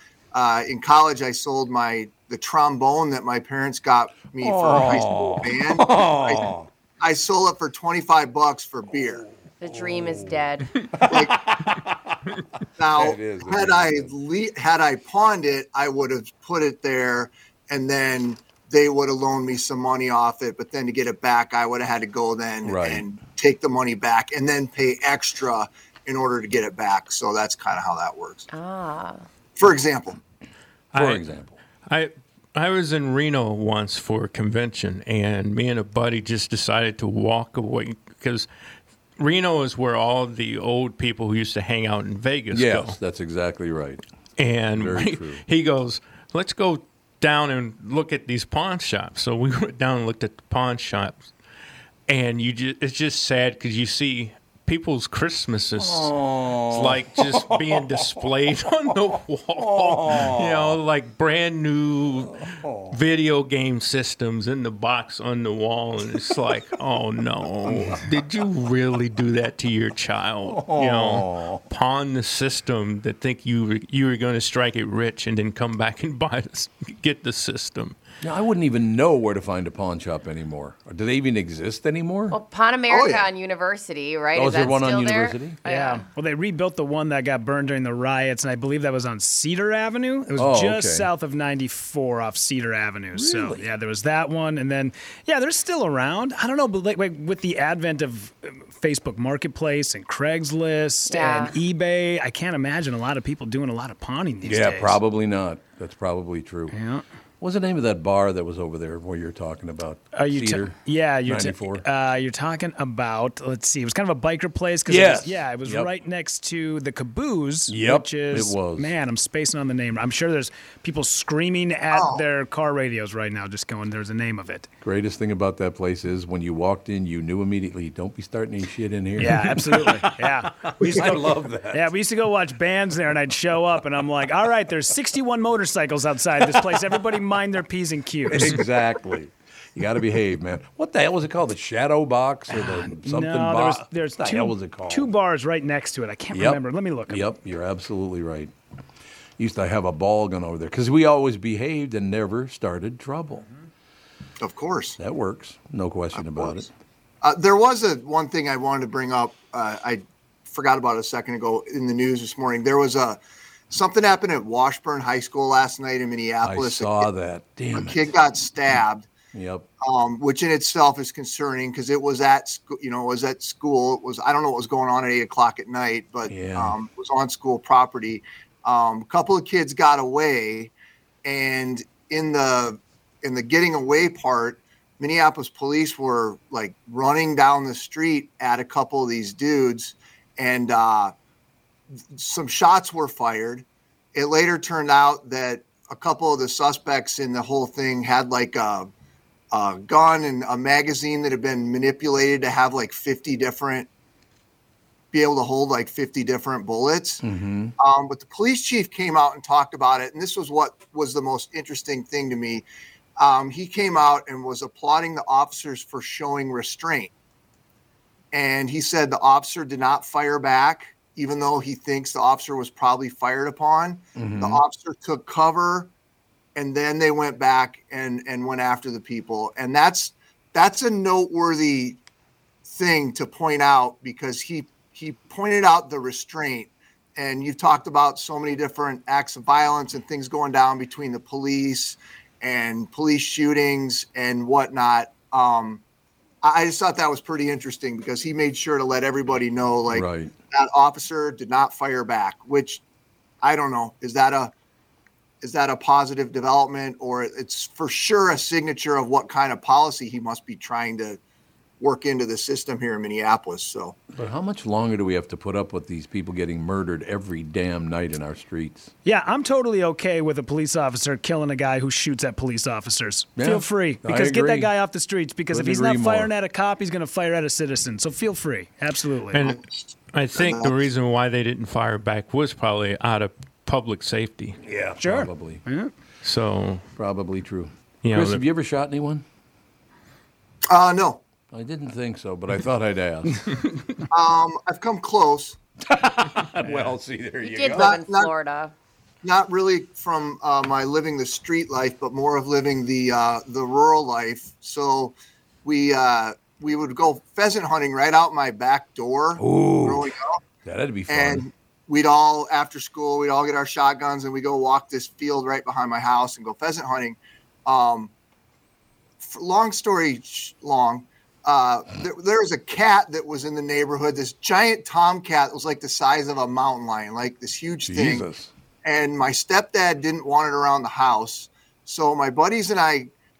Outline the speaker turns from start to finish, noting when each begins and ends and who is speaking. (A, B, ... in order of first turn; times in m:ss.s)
0:00.3-0:09.2 A
0:04.4-0:06.7 B
0:09.2-0:12.2 B
0:09.6-0:10.7 C
0:11.1-0:11.4 A
0:12.8-0:28.5 A
0:12.9-0:14.1 B
0:22.6-0:23.0 B
0:28.5-0:29.2 C
0:29.6-0:30.2 A
0:30.9-0:31.2 D
0:30.9-0:31.6 B
0:31.9-0:38.5 D
0:39.2-0:43.0 D
0:42.5-0:44.0 B
0:44.4-0:51.3 D
0:44.7-0:45.4 B
0:52.1-0:56.1 D
0:55.8-0:58.2 B
0:56.7-1:18.0 D
0:59.6-1:00.8 B
1:02.4-1:03.0 B
1:07.6-1:08.0 B
1:10.4-1:11.6 B
1:18.2-1:22.4 B
1:22.3-1:26.0 C
1:22.9-1:23.2 A
1:24.4-1:25.6 B
1:25.6-1:45.0 E
1:30.4-1:31.1 B
1:33.1-1:33.7 B
1:41.1-1:41.6 C
1:44.4-1:46.8 B
1:46.7-1:47.0 E
1:47.4-1:51.8 B
1:50.1-2:04.7 E
1:54.9-1:55.9 B
1:57.7-1:58.9 B
2:01.9-2:02.2 A
2:04.8-2:11.9 B
2:09.2-2:18.6 E
2:18.3-2:25.1 B
2:22.5-2:27.2 E
2:26.3-2:28.5 B
2:29.4-2:33.5 B
2:34.4-2:35.0 A
2:35.0-2:36.7 B
2:36.1-2:36.7 A
2:37.2-2:43.2 A
2:43.7-2:47.1 A
2:46.4-2:48.1 B
2:47.7-2:49.1 A
2:49.3-2:49.7 B
2:49.8-3:00.7 A
2:56.3-2:56.8 B
3:01.2-3:11.1 A
3:12.1-3:18.9 A
3:19.5-3:23.9 A
3:25.1-3:27.2 A
3:27.2-3:27.7 B
3:27.8-3:32.6 A
3:33.2-3:37.1 A
3:38.3-3:45.9 A
3:44.1-3:44.6 B
3:46.6-3:52.0 A
3:52.7-4:05.8 A
4:06.4-4:12.8 A
4:09.9-4:10.3 B
4:13.4-4:14.5 A
4:15.4-4:21.2 A
4:21.8-4:24.0 A
4:24.1-4:28.9 B
4:29.0-4:39.4 E
4:33.4-4:34.7 B
4:35.5-4:36.3 B
4:39.3-4:39.6 D
4:39.4-4:40.8 A
4:40.1-4:44.6 D
4:44.6-4:45.6 B
4:45.0-4:45.9 E
4:46.2-4:46.8 D
4:47.0-4:49.2 B
4:48.0-4:48.4 D
4:50.7-4:51.2 A
4:51.5-4:53.4 B
4:54.1-4:55.6 A
4:55.8-4:57.9 B
4:56.6-4:56.9 E
4:57.4-4:58.7 C
4:57.7-4:58.3 A
4:59.2-5:10.4 A
5:09.4-5:10.1 B
5:10.6-5:11.4 B
5:11.1-5:18.1 A
5:19.2-5:28.3 A
5:27.8-5:28.5 B
5:28.8-5:33.1 A